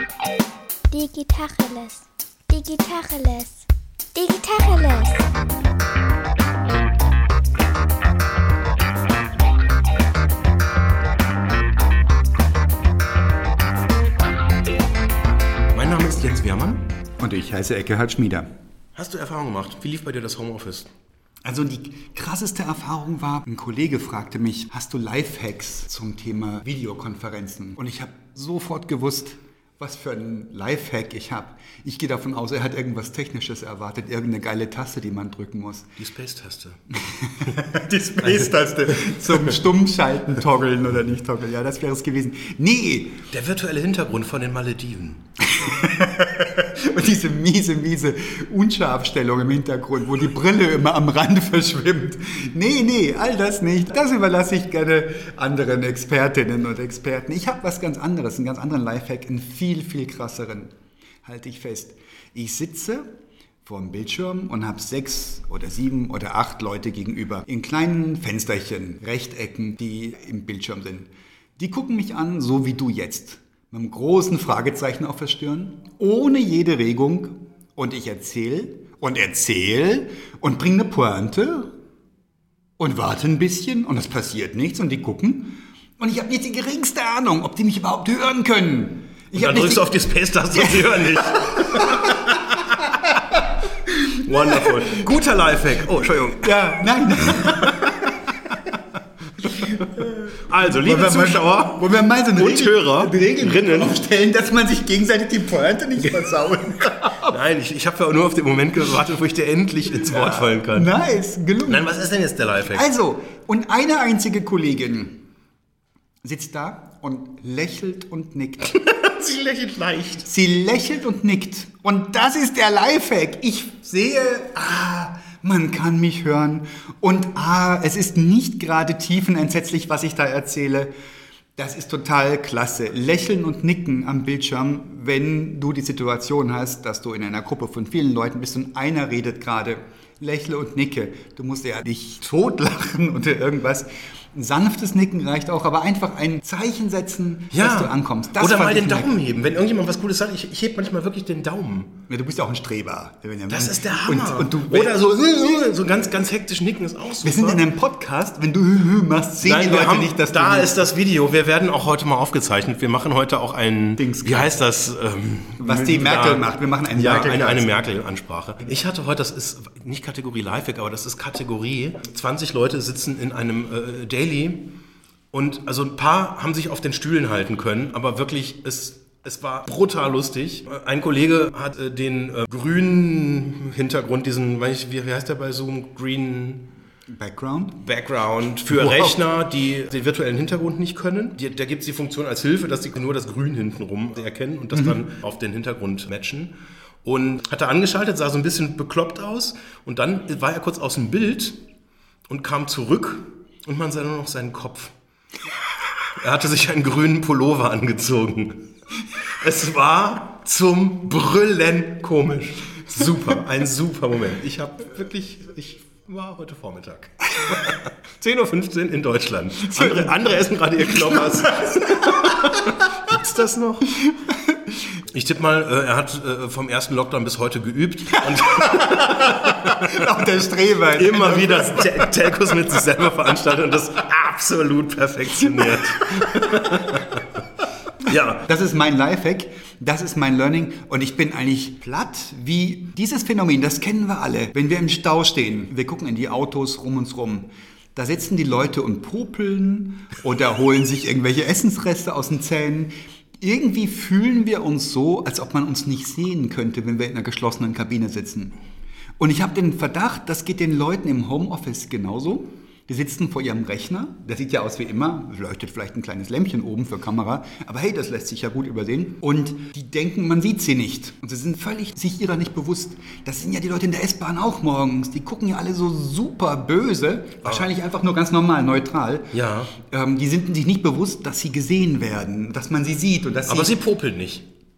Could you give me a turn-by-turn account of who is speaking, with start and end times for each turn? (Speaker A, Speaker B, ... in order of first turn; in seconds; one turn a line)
Speaker A: 0.9-5.3
Speaker B: 15.7-16.9
Speaker C: 17.2-18.5
Speaker B: 18.9-20.9
Speaker C: 21.4-35.9
Speaker B: 36.0-36.8
Speaker C: 37.0-43.2
Speaker B: 38.2-39.6
Speaker B: 43.3-45.3
Speaker C: 45.4-63.1
Speaker C: 63.6-81.8
Speaker C: 82.8-89.9
Speaker B: 89.3-92.9
Speaker C: 90.5-95.0
Speaker B: 94.2-96.5
Speaker C: 96.4-98.5
Speaker B: 97.5-97.9
Speaker C: 99.4-107.3
Speaker B: 99.6-104.0
Speaker B: 107.2-110.9
Speaker C: 110.1-111.8
Speaker B: 111.7-112.9
Speaker C: 112.7-115.2
Speaker C: 116.2-118.8
Speaker B: 118.7-120.3
Speaker C: 120.2-130.9
Speaker C: 131.6-149.1
Speaker B: 147.5-152.0
Speaker C: 152.1-154.9
Speaker B: 153.5-157.6
Speaker C: 157.2-160.7
Speaker B: 159.4-174.8
Speaker C: 164.0-164.5
Speaker C: 165.6-167.7
Speaker B: 175.3-186.7
Speaker C: 187.1-187.9
Speaker B: 187.8-201.6
Speaker C: 188.7-189.1
Speaker B: 202.3-204.9
Speaker B: 206.0-224.0
Speaker C: 219.7-220.3
Speaker C: 220.9-222.5
Speaker C: 224.1-224.6
Speaker B: 225.1-230.1
Speaker C: 228.4-232.8
Speaker B: 230.9-237.4
Speaker C: 236.1-236.9
Speaker B: 238.0-238.4
Speaker C: 238.4-258.6
Speaker C: 259.2-283.8
Speaker B: 279.3-279.7
Speaker B: 283.5-284.5